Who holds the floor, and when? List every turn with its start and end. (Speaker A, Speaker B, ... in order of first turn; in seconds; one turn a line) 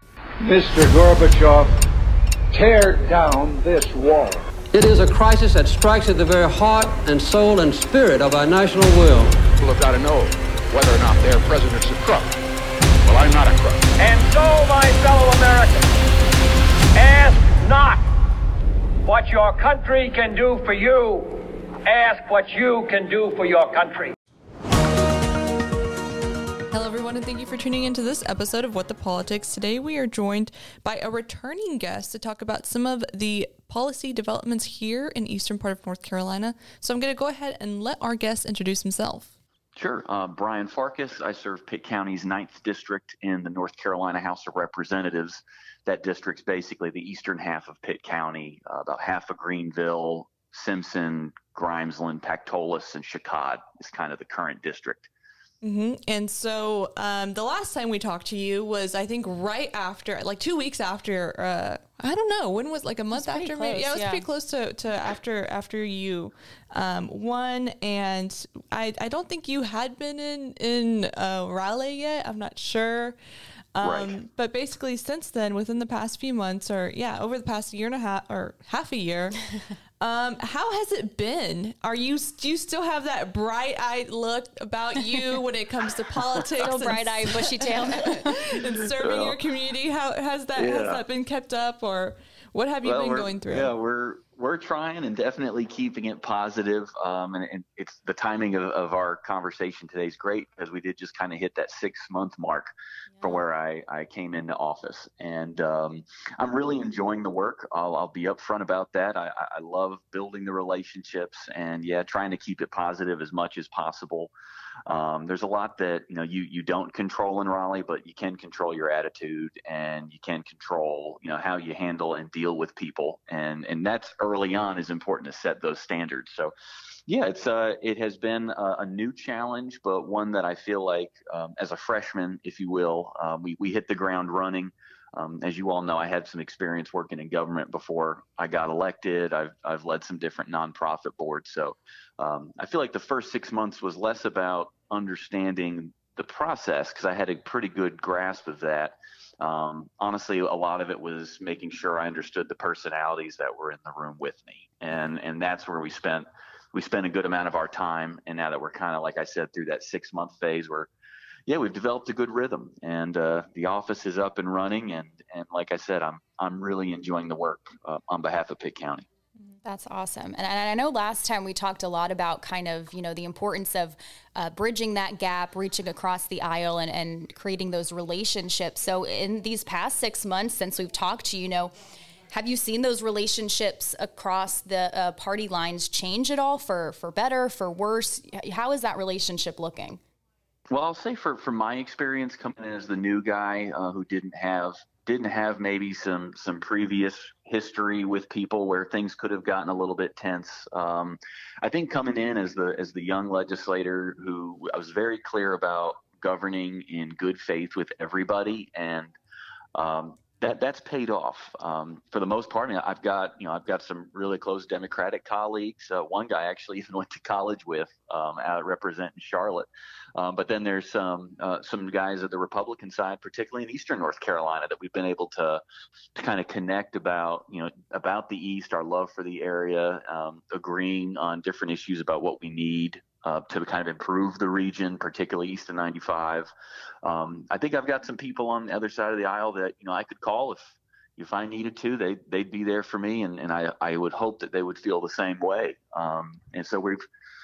Speaker A: 0.4-1.7
Speaker A: 2.5-4.5
Speaker B: 4.7-9.4
Speaker C: 9.6-12.3
Speaker C: 13.0-13.9
Speaker D: 14.0-15.8
Speaker D: 16.9-18.1
Speaker D: 19.0-24.1
Speaker E: 26.7-39.3
Speaker F: 39.7-55.1
Speaker E: 55.6-73.2
Speaker G: 63.1-64.2
Speaker E: 73.7-79.4
Speaker F: 73.8-74.1
Speaker E: 80.0-93.7
Speaker G: 86.6-88.4
Speaker F: 89.0-89.4
Speaker F: 90.5-91.0
Speaker F: 92.8-114.3
Speaker F: 114.9-126.5
Speaker F: 127.1-160.9
Speaker F: 161.5-169.1
Speaker G: 169.6-181.7
Speaker G: 182.3-190.0
Speaker F: 190.7-209.1
Speaker F: 209.7-225.6
Speaker F: 226.1-236.5
Speaker F: 237.0-247.1